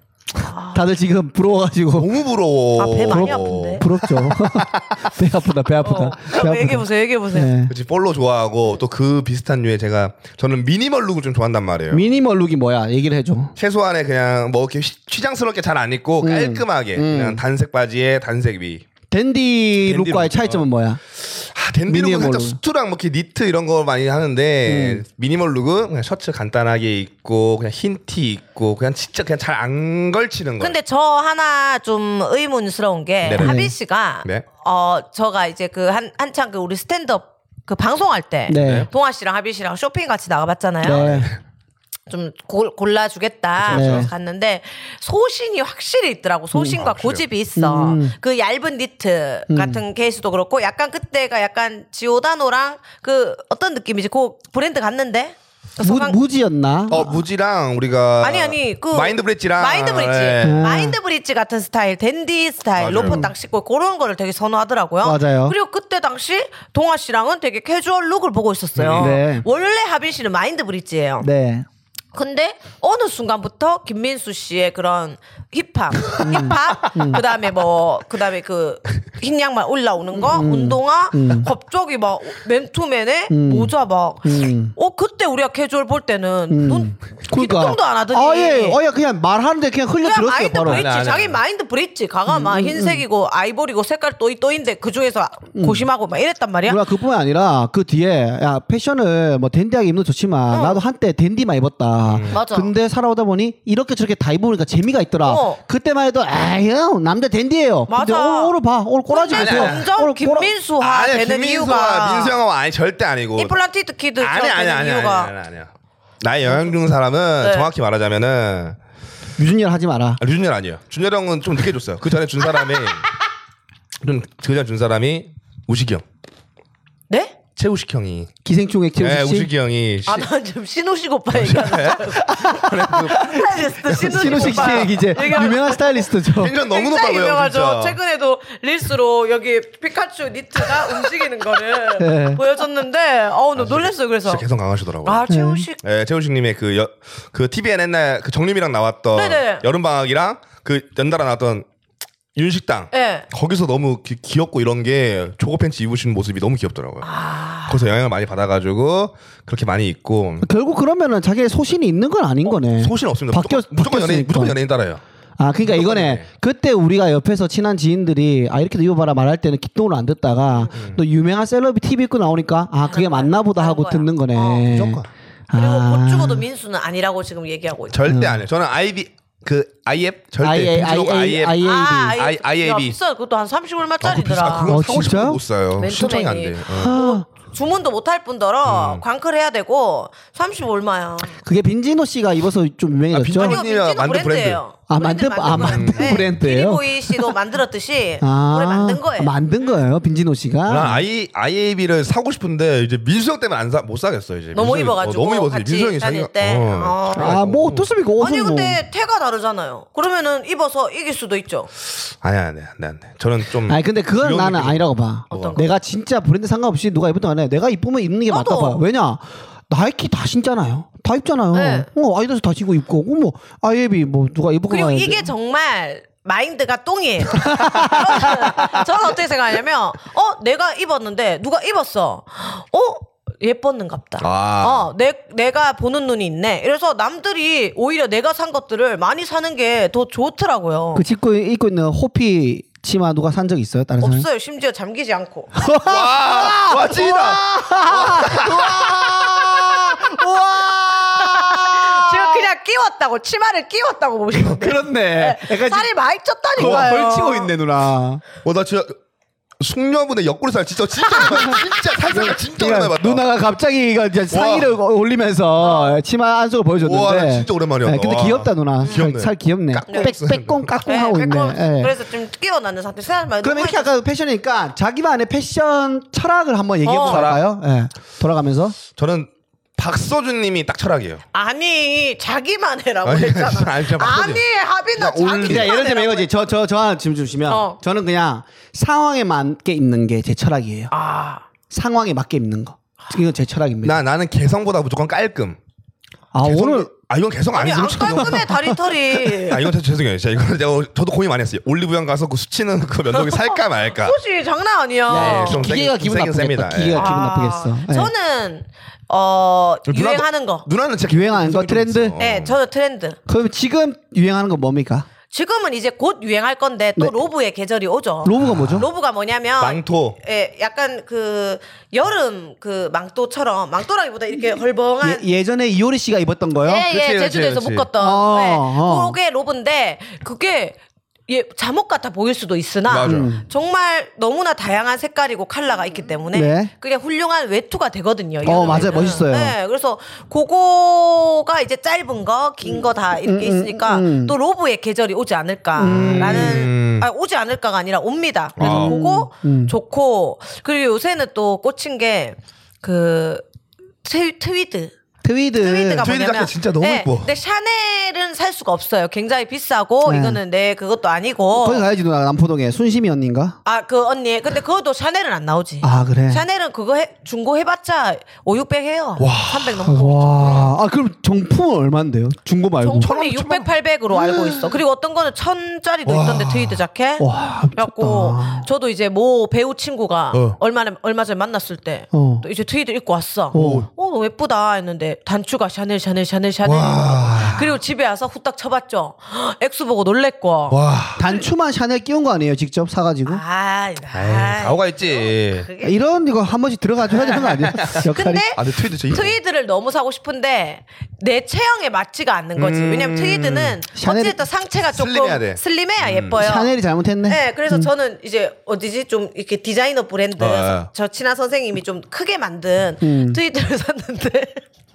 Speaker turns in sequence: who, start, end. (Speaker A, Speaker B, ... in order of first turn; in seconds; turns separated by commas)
Speaker A: 0.4-0.9, Speaker B: 0.7-2.1, Speaker C: 2.0-5.0, Speaker A: 2.8-3.9, Speaker B: 3.1-7.7, Speaker A: 5.8-7.5, Speaker C: 7.7-12.0, Speaker B: 11.9-13.5, Speaker C: 13.6-18.8, Speaker B: 16.2-17.4, Speaker B: 19.1-21.0, Speaker C: 19.8-20.6, Speaker C: 21.2-30.8, Speaker B: 21.9-22.6, Speaker B: 24.7-25.0, Speaker A: 30.6-41.2, Speaker C: 33.2-33.7, Speaker B: 33.4-33.7, Speaker B: 38.5-38.9, Speaker C: 38.5-38.9, Speaker B: 40.8-41.3, Speaker C: 40.8-41.4, Speaker A: 42.1-56.2, Speaker C: 43.6-44.1, Speaker B: 43.7-44.1, Speaker C: 46.8-47.2, Speaker B: 47.6-48.1, Speaker B: 49.5-49.8, Speaker B: 55.8-57.2, Speaker C: 56.9-60.6, Speaker A: 58.2-71.3, Speaker B: 60.4-61.0, Speaker C: 62.8-63.3, Speaker B: 63.0-63.3, Speaker B: 65.0-65.5, Speaker C: 68.8-69.2, Speaker B: 69.0-69.5, Speaker B: 71.2-71.7, Speaker A: 72.1-88.8, Speaker B: 76.2-77.2, Speaker B: 80.1-81.5, Speaker B: 83.3-84.7, Speaker B: 86.5-90.9, Speaker A: 90.0-96.8, Speaker C: 90.6-91.4, Speaker B: 92.3-93.0, Speaker B: 95.5-95.9, Speaker B: 96.7-110.5, Speaker A: 100.5-100.8, Speaker C: 102.0-102.4, Speaker A: 102.3-102.7, Speaker A: 105.2-105.6, Speaker A: 107.9-108.6, Speaker A: 109.1-112.4, Speaker C: 109.3-109.9, Speaker C: 110.8-113.6, Speaker A: 113.4-115.3, Speaker C: 114.2-115.7, Speaker C: 116.2-118.8, Speaker A: 116.5-116.7, Speaker A: 117.4-117.7, Speaker B: 119.4-120.2, Speaker C: 120.2-123.1, Speaker C: 124.0-126.0, Speaker A: 127.1-127.4, Speaker C: 127.6-128.3, Speaker B: 128.4-129.5, Speaker C: 129.0-130.3, Speaker A: 130.1-144.4, Speaker C: 131.3-135.0, Speaker B: 132.3-136.6, Speaker C: 136.3-138.0, Speaker B: 142.0-142.4, Speaker C: 143.6-145.2, Speaker A: 145.0-145.8, Speaker B: 145.3-145.7, Speaker C: 145.8-151.7, Speaker A: 149.2-149.7, Speaker C: 152.4-157.1, Speaker A: 152.9-153.3, Speaker A: 157.0-157.8, Speaker C: 157.7-160.5, Speaker B: 160.4-164.6, Speaker C: 162.8-165.0, Speaker B: 165.4-176.5, Speaker C: 165.7-166.2, Speaker C: 170.7-171.0, Speaker A: 172.8-174.7, Speaker C: 174.7-175.1, Speaker A: 175.5-178.0, Speaker C: 177.9-183.0, Speaker B: 178.1-178.4, Speaker B: 180.4-182.2, Speaker A: 181.6-184.8, Speaker C: 184.0-187.0, Speaker B: 184.7-185.4, Speaker A: 185.8-191.4, Speaker B: 186.7-187.3, Speaker C: 188.7-189.0, Speaker B: 191.4-193.6, Speaker C: 193.1-194.6, Speaker A: 193.4-199.3, Speaker B: 194.9-197.4, Speaker C: 195.5-196.4, Speaker B: 198.2-201.0, Speaker C: 200.7-207.9, Speaker A: 204.5-207.4, Speaker B: 207.2-208.8, Speaker A: 208.2-211.7, Speaker C: 212.2-215.6, Speaker B: 213.7-225.3, Speaker A: 215.3-215.7, Speaker A: 218.3-218.8, Speaker A: 221.5-221.9, Speaker A: 224.7-241.1, Speaker B: 227.4-228.5, Speaker C: 234.2-234.9, Speaker B: 240.9-244.3, Speaker A: 244.0-245.9, Speaker B: 245.6-252.5, Speaker C: 245.8-248.9, Speaker A: 251.2-257.5, Speaker B: 254.3-255.9, Speaker B: 256.6-258.2, Speaker C: 256.6-256.9, Speaker C: 258.4-258.9, Speaker C: 259.6-263.2, Speaker A: 261.1-261.8, Speaker B: 261.3-261.6, Speaker B: 262.1-271.9, Speaker C: 264.3-264.7, Speaker A: 265.6-266.0, Speaker C: 266.8-270.7, Speaker A: 269.9-270.1, Speaker A: 270.8-273.9, Speaker B: 273.4-278.8, Speaker A: 276.8-277.2, Speaker C: 276.9-277.4, Speaker C: 279.0-281.2, Speaker A: 281.3-286.3, Speaker C: 283.1-284.4, Speaker C: 285.0-285.7, Speaker B: 285.4-290.9, Speaker A: 287.5-287.8, Speaker A: 290.9-291.5, Speaker B: 291.7-294.0, Speaker C: 293.8-295.6, Speaker B: 296.3-296.9, Speaker C: 296.4-304.2, Speaker A: 297.5-299.7, Speaker A: 303.1-305.7, Speaker B: 305.1-308.1, Speaker C: 305.1-307.1, Speaker A: 306.9-310.7, Speaker C: 309.9-312.6, Speaker B: 311.1-312.2, Speaker A: 312.2-313.2, Speaker B: 313.3-315.1, Speaker A: 315.3-325.3, Speaker B: 318.2-318.9, Speaker C: 318.4-318.9, Speaker C: 319.6-320.2, Speaker B: 325.0-326.9, Speaker A: 326.6-353.4, Speaker C: 326.9-327.9, Speaker B: 328.0-329.2, Speaker C: 332.9-333.3, Speaker B: 333.1-333.4, Speaker B: 336.3-336.7, Speaker B: 338.4-339.6, Speaker B: 342.6-344.4, Speaker B: 345.8-346.7, Speaker C: 345.8-347.1, Speaker C: 348.6-349.0, Speaker B: 348.6-349.7, Speaker A: 354.0-354.9, Speaker B: 355.2-356.1, Speaker A: 355.6-361.9, Speaker C: 356.0-357.3, Speaker B: 360.0-360.4, Speaker B: 361.5-363.6, Speaker A: 363.6-370.7, Speaker B: 365.8-366.4, Speaker C: 369.2-369.9, Speaker B: 369.9-373.1, Speaker A: 372.8-390.8, Speaker C: 373.0-373.7, Speaker C: 376.1-376.8, Speaker B: 377.2-378.7, Speaker C: 380.3-380.6, Speaker B: 382.1-382.5, Speaker B: 383.5-383.9, Speaker C: 383.5-383.9, Speaker C: 386.6-387.8, Speaker C: 390.7-391.3, Speaker B: 391.2-393.4, Speaker A: 393.3-395.9, Speaker C: 394.1-395.7, Speaker B: 395.8-398.5, Speaker C: 397.2-399.4, Speaker A: 397.3-406.7, Speaker C: 402.6-403.8, Speaker B: 403.9-404.4, Speaker C: 404.9-406.4, Speaker B: 406.4-407.9, Speaker A: 407.3-414.6, Speaker C: 410.4-410.9, Speaker B: 413.0-413.4